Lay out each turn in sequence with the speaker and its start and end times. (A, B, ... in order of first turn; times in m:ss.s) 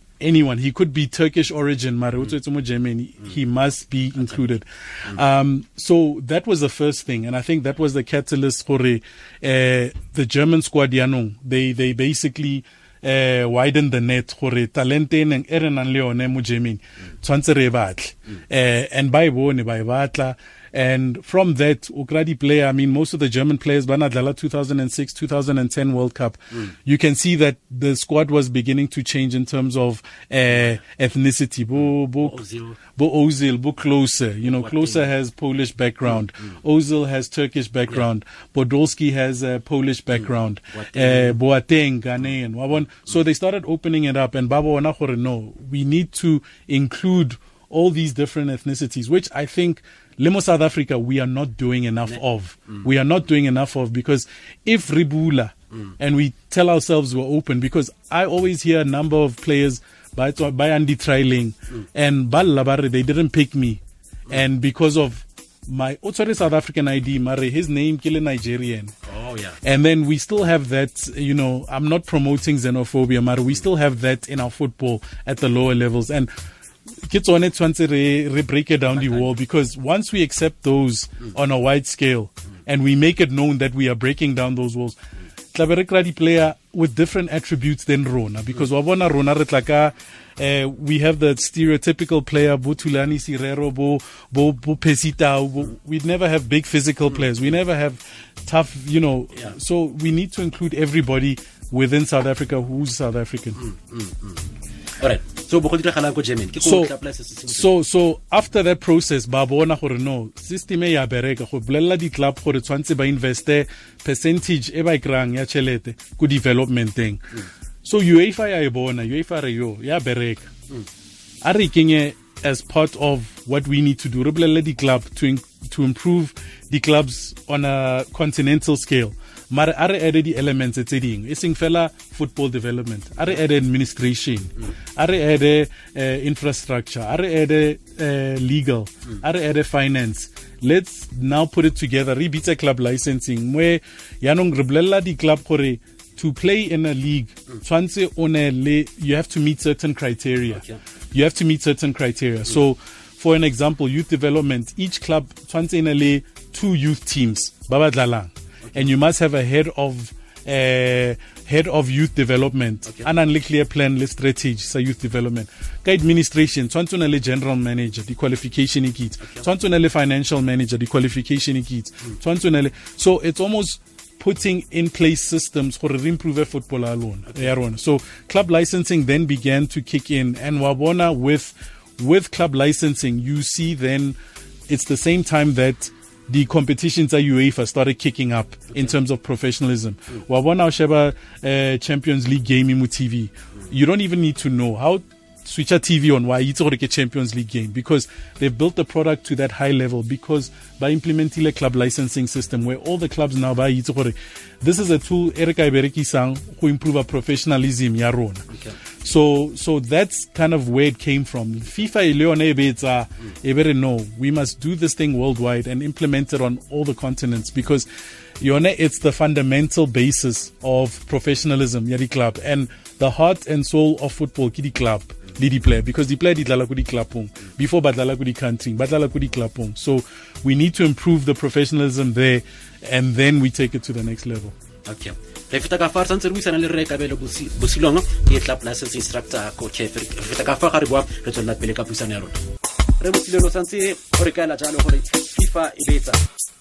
0:00.2-1:09.0 A
0:31.8-0:32.8 B
0:34.5-0:35.1 B
0:40.8-0:41.4 B
1:09.1-1:09.6 B
1:09.6-1:16.3 A
1:17.0-1:25.0 A
1:19.0-1:19.3 B
1:25.5-1:43.6 A
1:43.6-1:44.5 B
1:45.0-1:47.7 B
1:46.6-1:46.9 A
1:47.5-2:00.5 A
2:01.4-3:04.2 A
2:30.6-2:30.8 B
2:38.6-2:38.9 B
3:04.7-3:28.5 A
3:28.5-3:28.8 B
3:29.0-3:37.9 A
3:38.4-3:54.6 A
3:54.9-4:02.4 B
4:03.0-4:06.2 B